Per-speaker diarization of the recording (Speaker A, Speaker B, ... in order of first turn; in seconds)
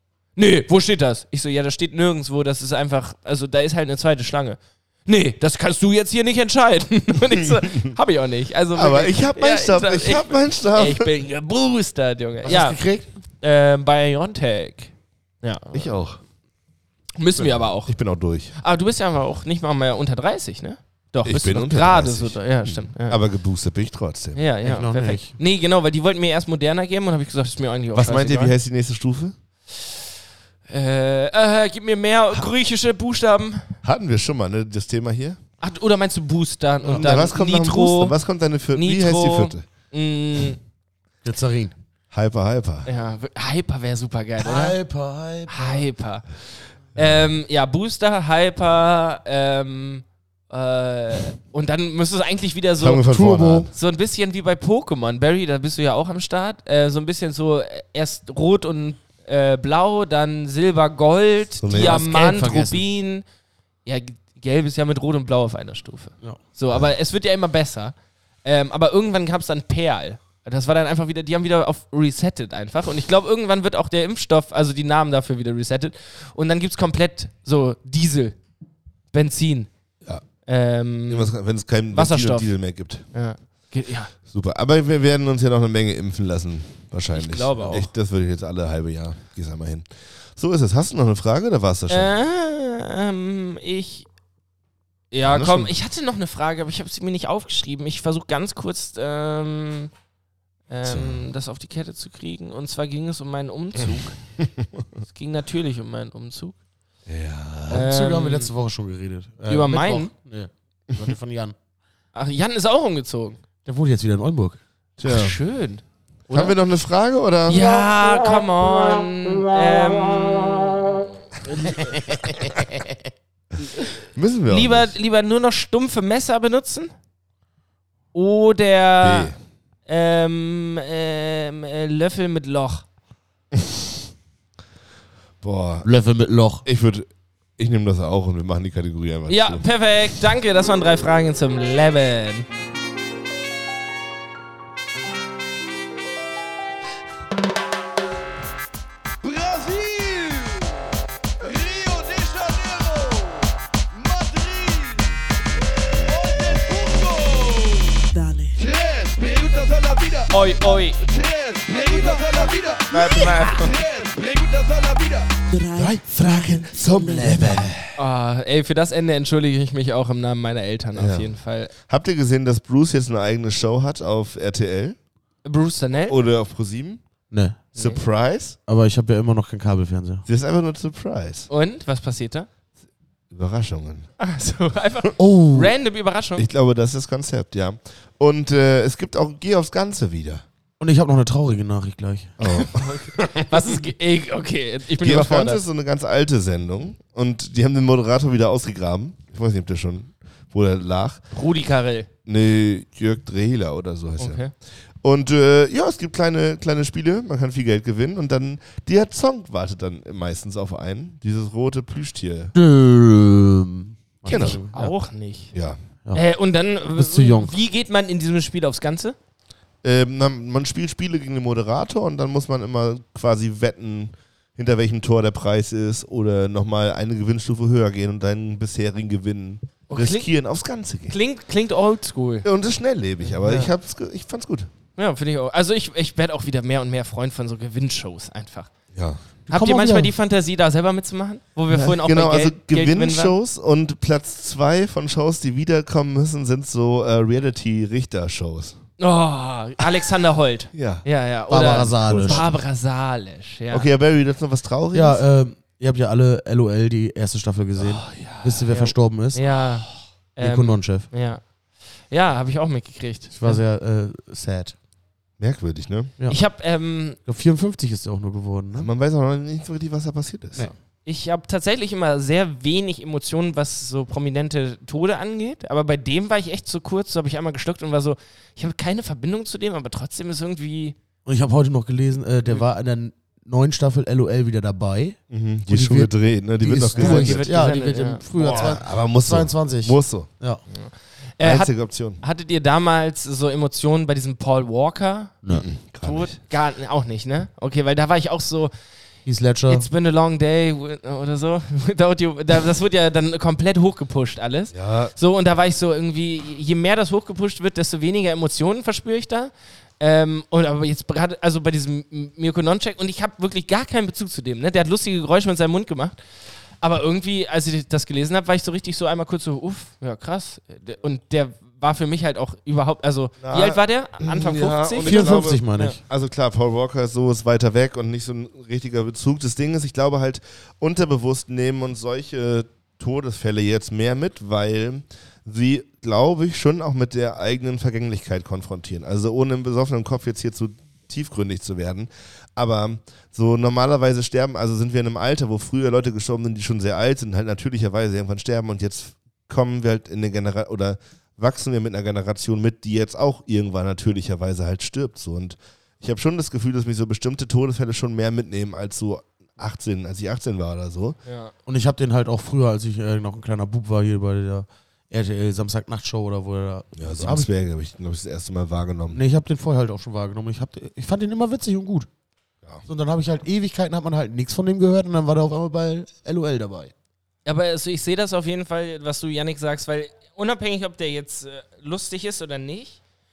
Speaker A: 0.4-12.8, 13.4-15.9, 17.2-18.0, 18.6-23.2, 24.4-28.5, 30.7-33.7, 35.6-38.2, 38.8-40.6, 42.9-44.8, 45.5-46.3, 47.0-53.1, 53.7-63.2, 63.9-78.4, 79.1-79.7, 80.5-81.3, 81.9-82.5, 83.1-84.1, 87.1-87.9, 91.9-94.1, 95.1-99.9, 100.7-104.2, 105.1-106.6, 107.7-108.5, 109.5-110.1, 112.1-113.4, 115.0-116.6, 117.5-121.0, 121.5-122.7, 124.5-126.9, 128.1-129.3, 129.9-132.8, 139.3-142.5, 160.3-161.0, 162.9-163.7, 168.0-171.7, 175.4-176.2, 177.8-178.0, 181.5-182.5, 184.2-186.4, 192.4-195.6, 201.3-202.1, 204.2-204.5, 214.3-215.5, 216.1-219.2, 229.9-230.3, 231.1-232.5, 235.0-238.7, 239.5-243.3, 249.0-253.9, 258.7-261.4, 262.1-263.6, 266.3-267.2, 270.6-280.9, 286.9-288.7, 290.7-295.4, 296.0-298.7, 299.7-316.2, 316.8-326.0, 361.3-361.5, 377.4-383.0
Speaker B: 7.4-7.9, 8.7-11.1, 15.7-16.2, 17.4-18.6, 21.2-24.4, 27.9-29.4, 33.8-35.4, 36.9-39.6, 42.1-42.9, 52.8-53.7, 61.6-62.0, 81.1-83.0, 84.3-92.1, 95.2-95.7, 100.8-101.2, 107.1-107.9, 115.0-115.4, 116.3-117.9, 124.2-125.0, 129.0-129.4, 133.6-133.8, 135.4-135.9, 136.7-139.7, 165.8-168.0, 170.9-175.0, 176.1-177.0, 177.8-178.6, 180.3-181.5, 183.3-184.1, 186.4-190.4, 192.4-193.5, 195.0-201.2, 202.3-204.4, 205.0-212.5, 214.3-214.6, 215.5-215.8, 219.8-231.2, 232.4-234.7, 238.9-239.2, 241.7-248.8, 250.8-251.1, 251.7-252.5, 253.7-255.2, 257.8-258.6, 265.4-266.1, 268.8-270.7, 285.3-287.5, 288.4-290.3, 291.4-292.2, 295.5-296.4, 304.7-305.1, 323.4-361.2, 367.0-369.2
Speaker C: 12.4-13.1, 24.6-25.3, 41.2-41.7, 44.4-45.8, 53.1-53.7, 61.7-62.8, 107.7-111.6, 113.7-114.6, 135.8-136.7, 177.3-177.6, 178.7-180.2, 185.2-185.7, 190.8-192.4, 212.5-214.9, 217.0-217.6, 239.5-240.1, 251.5-252.5, 254.9-259.4, 260.4-261.1, 263.3-264.8, 267.3-268.9, 281.3-290.6, 299.3-299.9, 325.0-326.0, 361.7-367.5, 369.1-372.1, 372.9-376.9
Speaker D: 149.2-155.1, 155.9-158.0, 158.6-165.4
Speaker E: 158.1-158.6, 165.5-167.6